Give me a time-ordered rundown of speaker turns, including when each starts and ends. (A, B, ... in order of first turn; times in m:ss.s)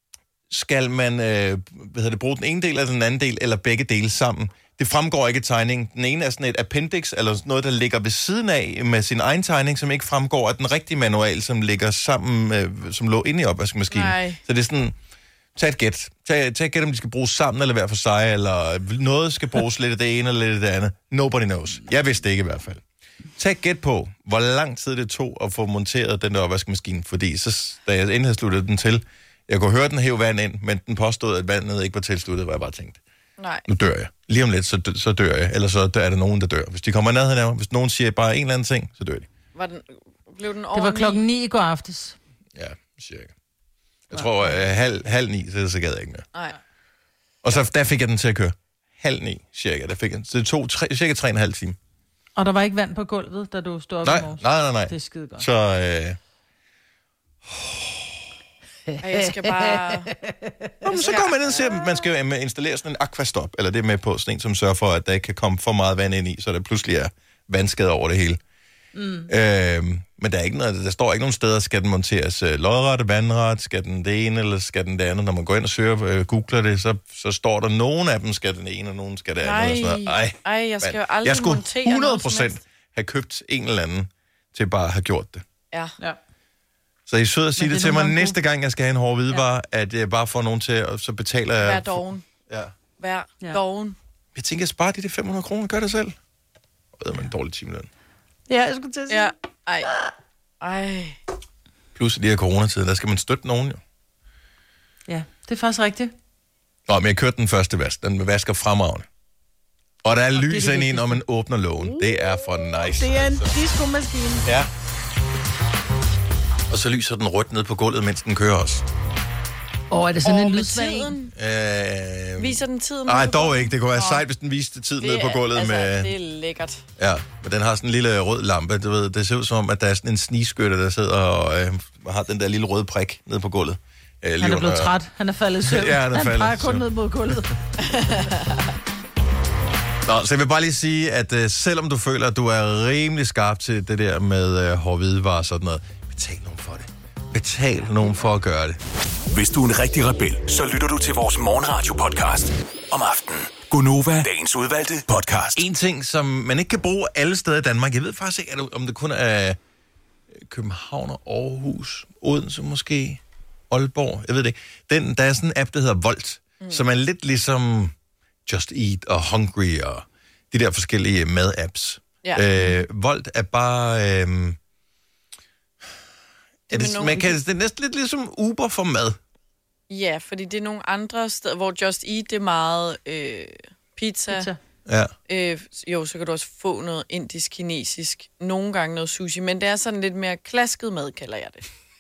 0:00.5-0:15.0 A
0:13.9-0:14.4 B
0:15.6-0:22.8 A
0:23.4-0:33.0 A
0:33.4-0:33.7 B
0:33.7-0:39.3 A
0:39.5-0:41.2 B
0:40.7-0:42.2 C
0:42.6-0:43.3 A
0:44.1-0:46.2 A
0:44.2-0:44.6 C
0:47.4-0:51.8 A
0:52.4-0:55.5 C
0:54.0-0:56.2 A
0:57.5-0:58.1 A
0:58.9-1:00.7 C
0:59.0-1:00.1 B
1:00.8-1:08.4 A
1:01.0-1:01.8 B
1:09.0-1:09.3 C
1:09.3-1:25.4 A
1:19.4-1:22.6 B
1:27.1-1:32.7 A
1:27.6-1:28.4 C
1:31.6-1:32.3 B
1:33.0-1:34.0 B
1:34.4-1:36.2 A
1:37.0-1:37.9 A
1:38.5-1:39.3 C
1:39.1-1:39.9 B
1:40.6-1:41.2 B
1:42.0-1:43.8 A
1:45.1-1:46.1 C
1:46.9-1:49.1 A
1:50.0-1:53.6 A
1:50.4-1:51.2 C
1:52.8-1:54.5 C
1:54.4-1:54.7 A
1:56.7-1:58.8 A
1:59.9-2:01.1 C
2:00.2-2:01.3 B
2:01.4-2:06.1 A
2:02.4-2:04.2 B
2:05.0-2:06.8 B
2:07.0-2:14.9 A
2:14.4-2:17.5 C
2:15.6-2:16.8 A
2:17.8-2:18.6 B
2:20.1-2:28.8 A
2:29.3-2:35.6 D
2:35.6-2:39.6 A
2:40.5-2:47.9 A
2:48.5-2:54.6 A
2:52.2-2:52.5 B
2:56.7-2:57.4 B
2:56.7-2:59.2 A
2:59.9-3:04.5 B
3:04.3-3:04.6 C
3:04.9-3:05.1 A
3:05.3-3:11.7 B